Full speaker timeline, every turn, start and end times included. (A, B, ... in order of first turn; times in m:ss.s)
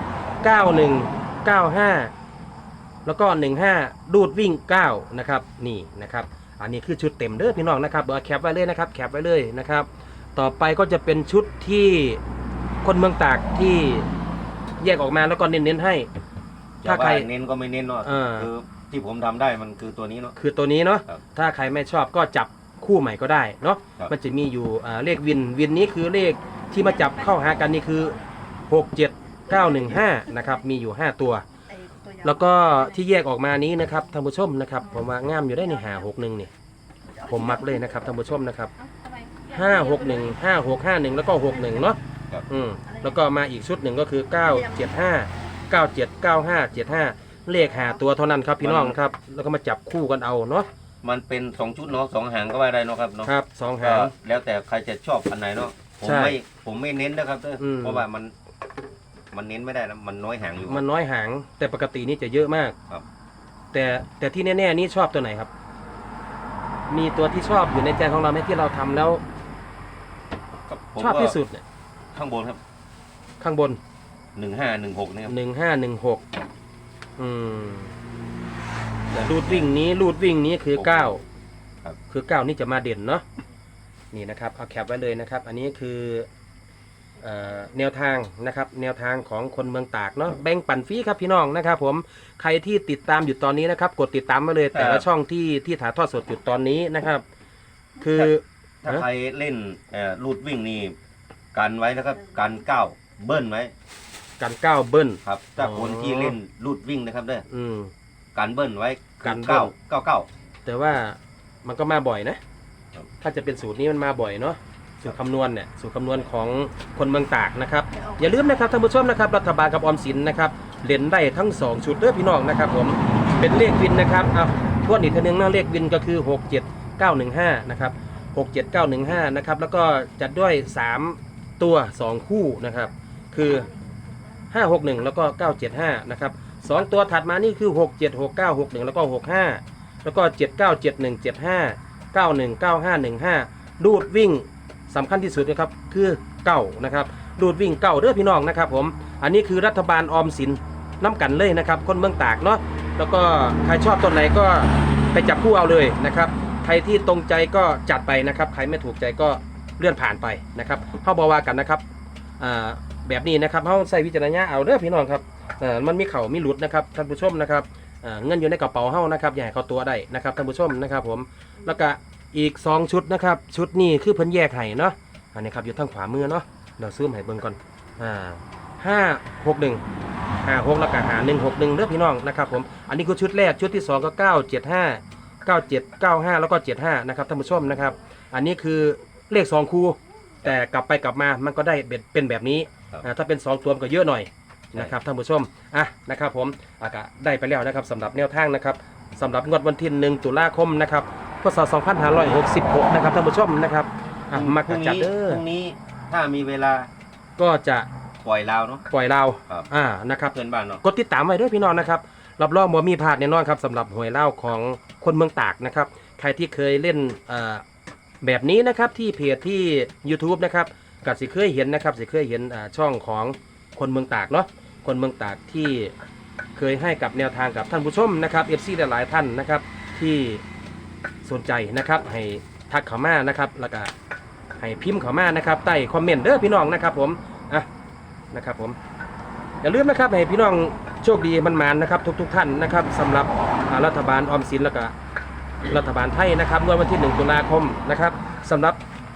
0:00.4-0:02.1 A
0:03.1-0:12.2 A
0:12.8-0:14.1 A
0:14.8-0:16.1 A
0:16.8-0:20.4 B
0:16.8-0:17.3 A
0:18.0-0:18.5 A
0:20.4-0:28.2 A
0:26.8-0:27.7 C
0:28.7-0:31.4 A
0:29.5-0:30.5 C
0:31.7-0:33.1 C
0:32.2-0:36.5 A
0:35.0-0:36.1 C
0:37.1-0:37.9 C
0:37.3-0:38.7 A
0:38.8-0:40.4 C
0:39.5-0:50.7 A
0:41.5-0:42.0 C
0:42.9-0:43.2 C
0:44.5-0:44.9 C
0:48.6-0:49.0 B
0:51.0-0:58.3 B
0:53.2-0:54.1 A
0:56.0-0:56.4 A
0:57.6-0:58.1 A
0:59.3-1:00.8 B
1:00.6-1:02.8 A
1:03.7-1:05.5 A
1:06.9-1:09.2 A
1:10.7-1:11.4 B
1:11.0-1:11.6 A
1:12.1-1:12.6 B
1:13.4-1:13.8 A
1:14.4-1:15.3 B
1:15.3-1:16.2 A
1:17.2-1:18.0 A
1:19.1-1:21.2 A
1:19.4-1:19.7 B
1:20.8-1:21.2 B
1:22.1-1:23.2 A
1:24.1-1:26.3 A
1:27.2-1:37.2 A
1:34.7-1:35.1 B
1:38.0-1:39.0 A
1:38.8-1:41.0 B
1:41.5-1:43.7 B
1:44.4-1:46.4 A
1:45.2-1:47.4 B
1:47.5-1:47.9 A
1:48.4-1:50.3 B
1:49.2-1:49.7 A
1:50.6-1:52.4 A
1:53.2-2:13.7 A
1:57.9-1:58.4 C
2:13.4-2:14.5 C
2:14.5-2:41.8 A
2:42.4-2:59.8 A
3:00.4-3:25.4 A
3:24.3-3:26.9 B
3:27.4-3:27.9 A
3:28.2-3:28.9 B
3:28.9-3:37.6 A
3:30.3-3:30.8 B
3:38.2-3:46.0 A
3:46.6-3:50.4 A
3:51.2-3:53.9 A
3:54.6-3:57.7 A
3:58.3-3:58.8 A
3:59.6-4:04.9 A
4:05.7-4:08.8 A